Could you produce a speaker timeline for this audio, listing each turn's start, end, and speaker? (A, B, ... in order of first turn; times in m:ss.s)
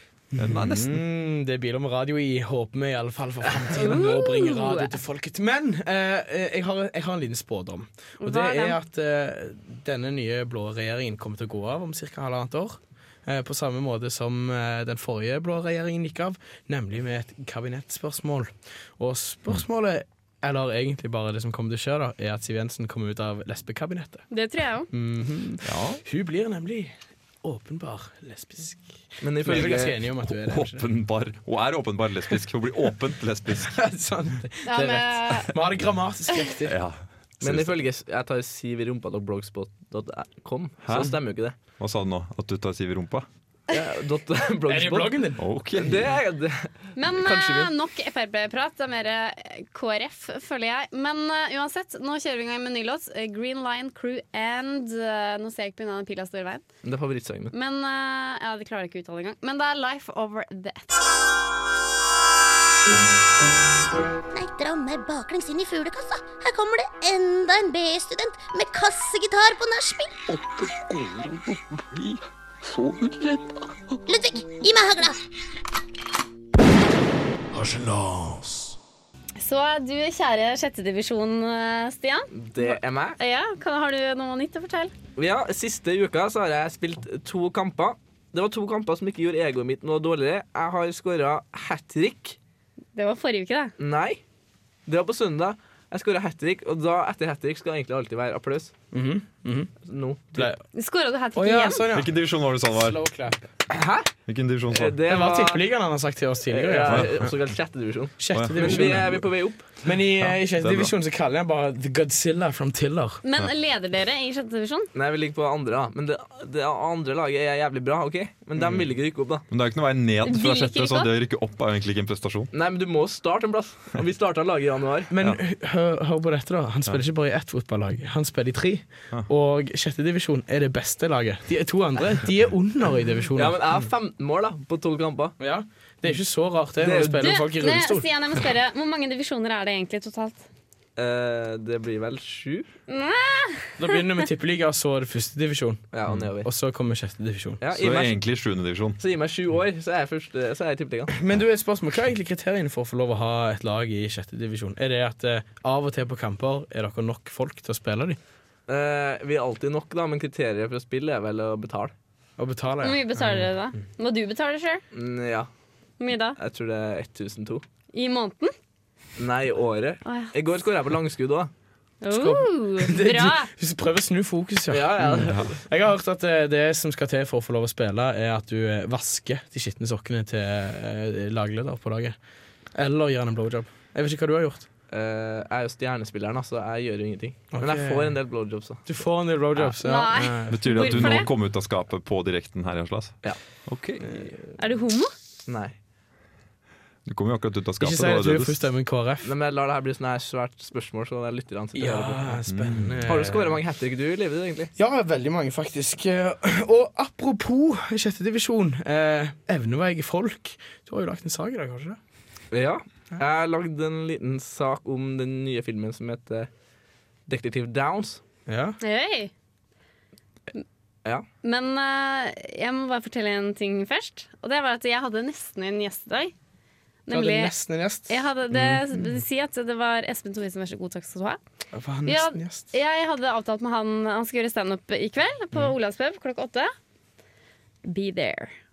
0:00.3-0:24.2 A
0:00.4-0:01.0 B
0:03.8-0:04.9 C
0:08.2-0:08.8 C
0:24.3-0:24.9 C
0:24.9-0:30.8 A
0:25.6-0:26.0 B
0:29.2-0:30.0 D
0:30.3-0:33.8 B
0:33.6-0:36.8 A
0:34.7-0:35.5 C
0:36.6-0:37.8 B
0:37.4-0:41.6 D
0:40.8-0:41.2 B
0:41.8-0:43.3 B
0:43.7-0:47.7 D
0:44.6-0:45.5 A
0:45.4-0:46.1 B
0:47.0-0:56.7 C
0:56.8-0:57.5 D
0:57.5-1:00.9 C
1:04.3-1:10.1 E
1:10.3-1:14.0 F
1:14.1-1:15.2 E
1:17.5-1:18.8 F
1:19.4-1:24.9 C
1:22.3-1:23.2 D
1:25.2-1:32.4 D
1:33.0-1:33.7 C
1:33.8-1:34.2 D
1:34.9-1:38.7 D
1:38.9-1:39.7 A
1:39.8-1:40.5 D
1:40.3-1:40.6 A
1:40.8-1:41.9 C
1:41.4-1:43.5 A
1:41.9-1:43.0 B
1:43.7-1:44.1 D
1:44.3-1:45.0 B
1:44.7-1:45.6 D
1:45.1-1:47.3 A
1:46.5-1:49.7 D
1:46.9-1:47.3 B
1:48.2-1:49.2 A
1:48.3-1:49.2 B
1:49.8-1:53.2 A
1:50.2-1:50.9 B
1:53.2-1:54.9 C
1:55.0-1:59.4 D
1:58.6-1:58.8 B
1:59.5-2:02.5 B
2:00.2-2:01.1 C
2:02.5-2:05.1 D
2:05.1-2:13.6 A
2:13.4-2:15.4 D
2:15.4-2:18.1 A
2:16.8-2:17.3 D
2:17.2-2:20.4 C
2:21.0-2:22.7 D
2:22.9-2:24.0 C
2:23.8-2:25.9 A
2:25.9-2:26.5 D
2:26.4-2:27.6 A
2:27.6-2:28.2 D
2:27.7-2:29.0 B
2:29.0-2:31.2 D
2:31.1-2:38.2 A
2:38.7-2:41.9 D
2:42.4-2:43.5 A
2:42.8-2:44.8 C
2:44.9-2:45.5 D
2:46.0-2:46.4 C
2:46.4-2:47.6 D
2:47.9-2:48.5 C
2:49.2-2:51.5 D
2:50.0-2:50.3 C
2:52.0-2:53.5 C
2:52.1-3:02.2 A
2:54.7-2:55.5 D
2:55.1-2:55.5 B
3:02.8-3:04.7 A
3:04.9-3:08.8 D
3:07.5-3:08.2 A
3:08.9-3:11.3 A
3:09.8-3:11.3 C
3:10.5-3:14.2 B
3:14.0-3:14.4 A
3:14.6-3:15.1 C
3:15.5-3:15.8 D
3:17.1-3:18.6 B
3:17.8-3:19.3 A
3:19.2-3:22.4 D
3:21.8-3:23.6 A
3:22.5-3:23.0 B
3:23.1-3:24.7 D
3:24.8-3:32.0 A
3:32.5-3:36.5 D
3:37.3-3:38.2 D
3:38.5-3:38.8 A
3:38.8-3:39.3 C
3:41.4-3:46.3 C
3:47.1-3:47.5 C
3:47.1-3:49.1 A
3:48.1-3:51.4 C
3:51.7-3:52.7 A
3:52.1-3:56.7 C
3:57.8-3:58.5 C